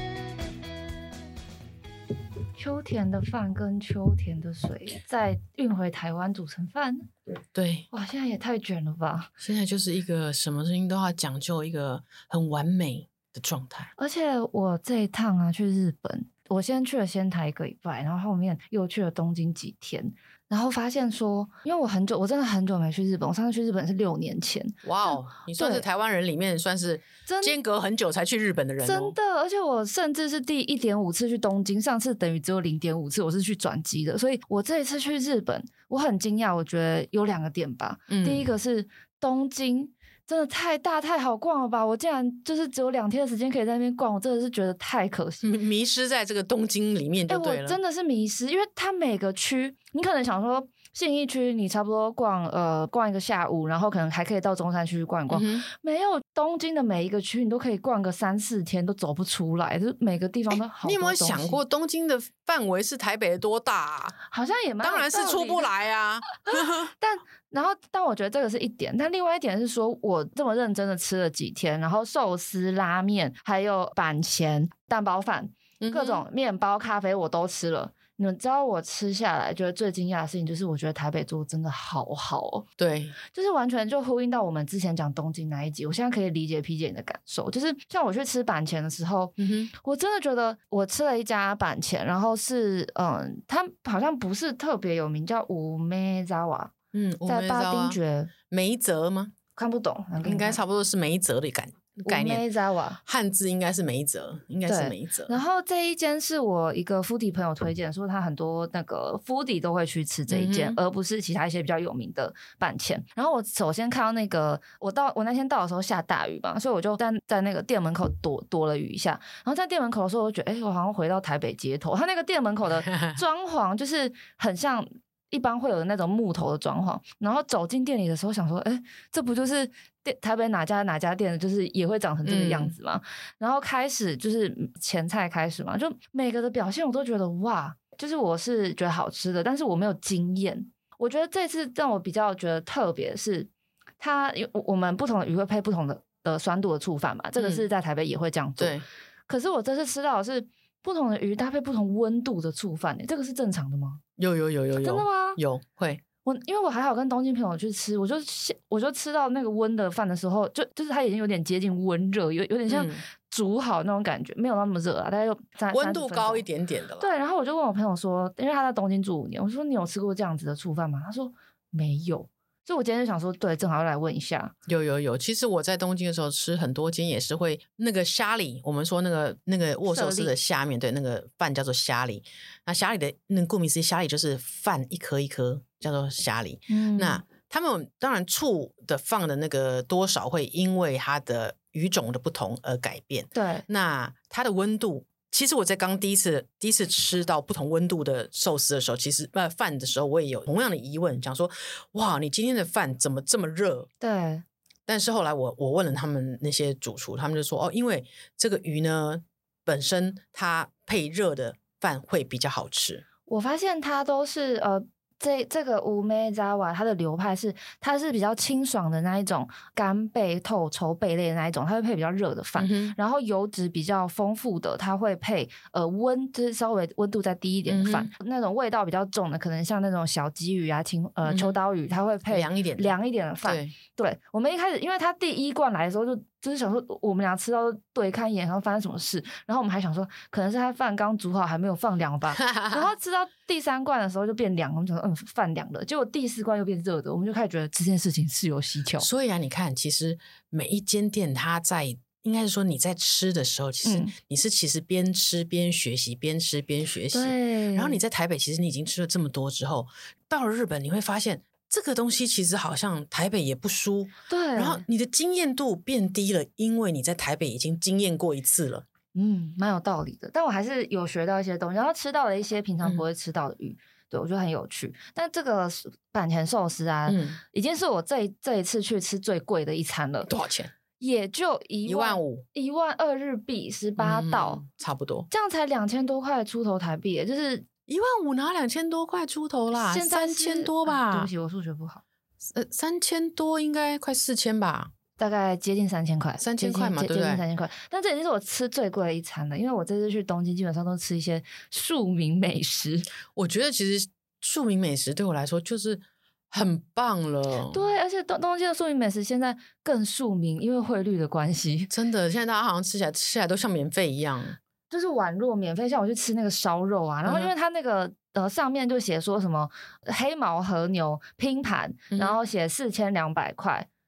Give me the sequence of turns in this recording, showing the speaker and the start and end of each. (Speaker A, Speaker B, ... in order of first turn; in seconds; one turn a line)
Speaker A: 2.6-7.1
Speaker B: 7.5-7.9
Speaker A: 7.9-9.3
Speaker B: 9.4-13.9
Speaker A: 14.0-25.8
Speaker B: 24.8-29.1
Speaker A: 27.2-27.6
Speaker A: 28.8-45.5
Speaker B: 38.1-38.5
Speaker B: 45.4-47.8
Speaker A: 47.3-61.6
Speaker B: 55.3-55.6
Speaker B: 60.8-64.2
Speaker A: 64.2-65.7
Speaker B: 64.8-66.9
Speaker A: 66.4-82.7
Speaker B: 75.8-76.2
Speaker B: 82.8-83.2
Speaker A: 83.2-96.7
Speaker B: 89.4-89.7
Speaker B: 96.9-99.3
Speaker A: 97.3-98.3
Speaker A: 99.5-100.6
Speaker B: 100.2-102.4
Speaker A: 102.0-103.0
Speaker B: 103.0-105.4
Speaker A: 104.6-154.0
Speaker B: 110.3-110.8
Speaker B: 122.8-123.2
Speaker B: 132.2-132.7
Speaker B: 147.4-147.6
Speaker B: 148.6-148.8
Speaker B: 154.2-156.0
Speaker A: 154.8-155.4
Speaker A: 156.2-166.4
Speaker B: 162.7-163.0
Speaker B: 165.7-167.1
Speaker A: 167.0-174.5
Speaker B: 174.7-203.9
Speaker A: 179.8-180.3
Speaker A: 186.7-187.2
Speaker A: 193.3-193.6
Speaker A: 204.0-204.4
Speaker B: 204.9-213.0
Speaker A: 213.3-249.1
Speaker B: 222.6-222.9
Speaker B: 227.7-228.1
Speaker B: 231.2-231.6
Speaker B: 232.3-233.7
Speaker B: 242.4-242.9
Speaker B: 249.0-268.9
Speaker A: 253.8-254.1
Speaker A: 257.1-258.0
Speaker A: 264.3-264.8
Speaker A: 269.1-280.3
Speaker B: 277.1-277.4
Speaker B: 280.3-280.7
Speaker A: 281.0-284.6
Speaker B: 281.8-282.4
Speaker B: 284.0-285.3
Speaker A: 285.3-287.6
Speaker B: 287.9-291.3
Speaker A: 289.7-292.0
Speaker B: 292.4-294.9
Speaker A: 295.2-303.1
Speaker B: 296.4-297.4
Speaker B: 303.3-307.8
Speaker A: 307.7-311.9
Speaker B: 311.9-314.6
Speaker A: 314.9-323.9
Speaker B: 317.2-317.5
Speaker B: 322.1-322.4